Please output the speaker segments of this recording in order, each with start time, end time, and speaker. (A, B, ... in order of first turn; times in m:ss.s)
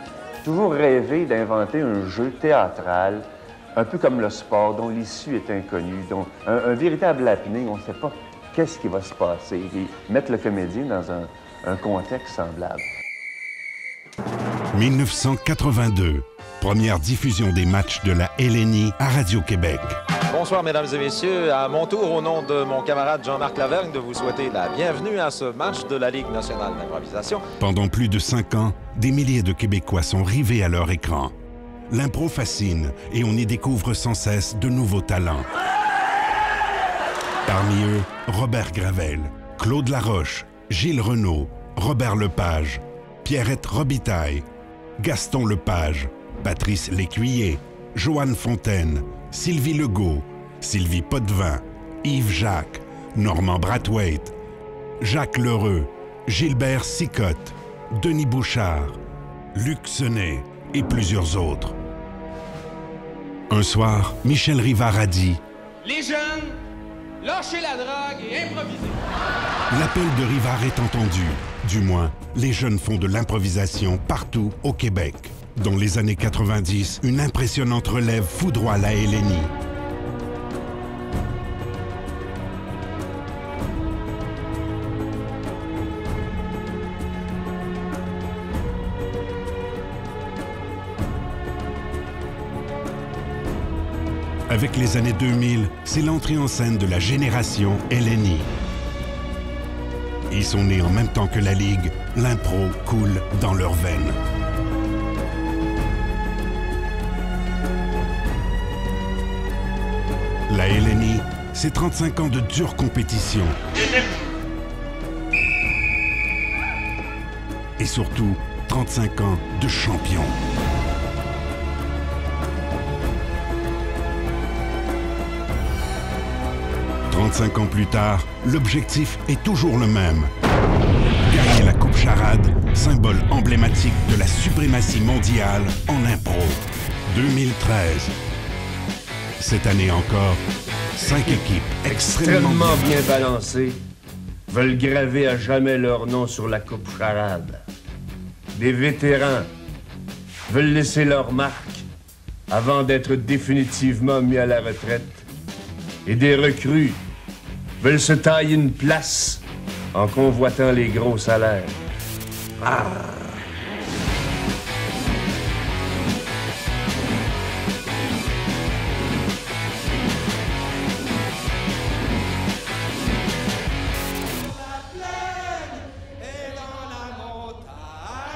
0:00.6-0:03.0 A
0:01.5-0:03.2 B
0:03.8-0:12.8 B
0:04.6-0:07.4 A
0:09.0-0:09.4 A
0:14.7-0:20.0 C
0:20.3-0:27.4 D
0:27.6-0:31.3 C
0:31.9-0:35.5 C
0:37.5-0:44.5 C
0:45.0-0:54.3 C
0:55.0-0:59.0 C
0:59.6-1:01.8 C
1:03.5-1:05.4 C
1:05.8-1:06.6 E
1:07.2-1:09.0 E
1:09.7-1:19.5 C
1:34.5-1:38.5 C
1:40.3-1:44.2 C
1:50.5-1:53.6 C
1:57.8-2:00.4 C
2:07.1-2:10.3 C
2:11.2-2:18.1 C
2:19.4-2:20.4 C
2:21.0-2:23.0 C
2:21.9-2:23.8 A
2:24.5-2:27.6 A
2:28.5-2:29.5 A
2:30.5-2:31.9 A
2:32.5-2:35.3 A
2:36.0-2:37.0 A
2:37.8-2:41.8 A
2:42.6-2:43.3 A
2:56.6-2:57.8 E